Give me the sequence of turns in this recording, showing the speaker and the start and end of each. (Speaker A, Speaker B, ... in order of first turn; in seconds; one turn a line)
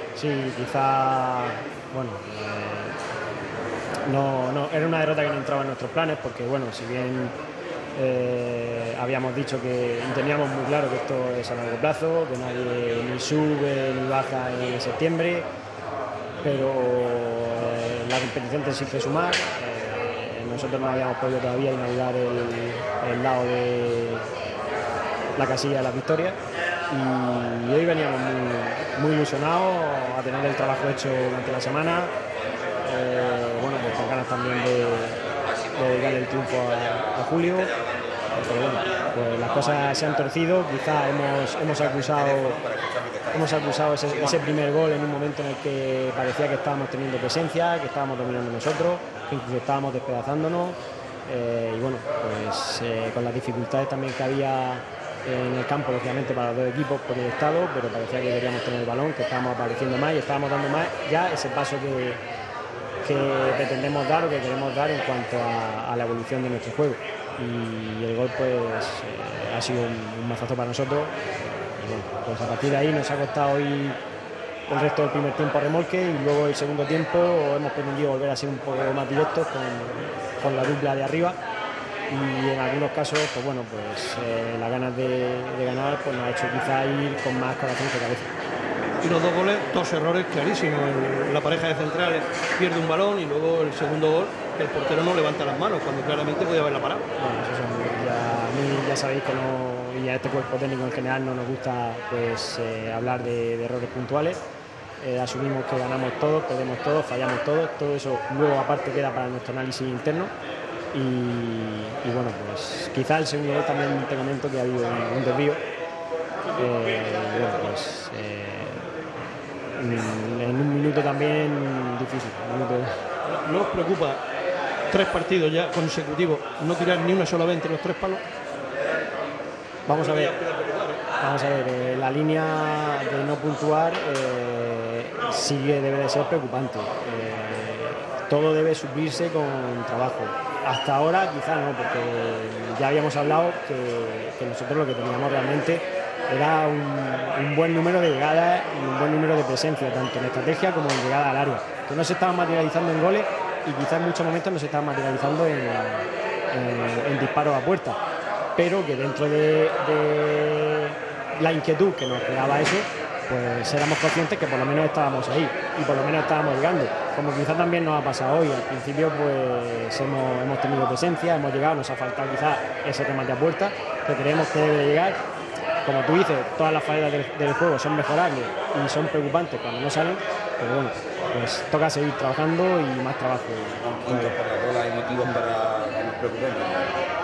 Speaker A: 0.1-3.0
Speaker A: 4.1-7.3
Speaker A: 7.9-15.5
Speaker A: 16.4-24.3
Speaker A: 25.4-26.4
Speaker A: 26.9-32.1
Speaker A: 32.8-37.8
Speaker A: 38.3-42.6
Speaker B: 42.8-43.1
Speaker A: 43.2-62.2
Speaker A: 63.0-74.0
Speaker A: 74.7-81.4
Speaker A: 82.1-88.3
Speaker C: 89.0-97.0
Speaker A: 97.2-104.4
Speaker A: 105.0-110.3
Speaker A: 110.9-115.6
Speaker A: 116.5-118.9
Speaker A: 119.7-123.0
Speaker C: 123.2-124.2
Speaker C: 124.9-128.2
Speaker A: 129.9-130.3
Speaker C: 129.9-131.0
Speaker A: 131.2-158.0
Speaker A: 158.6-175.2
Speaker A: 175.8-184.4
Speaker B: 184.1-186.9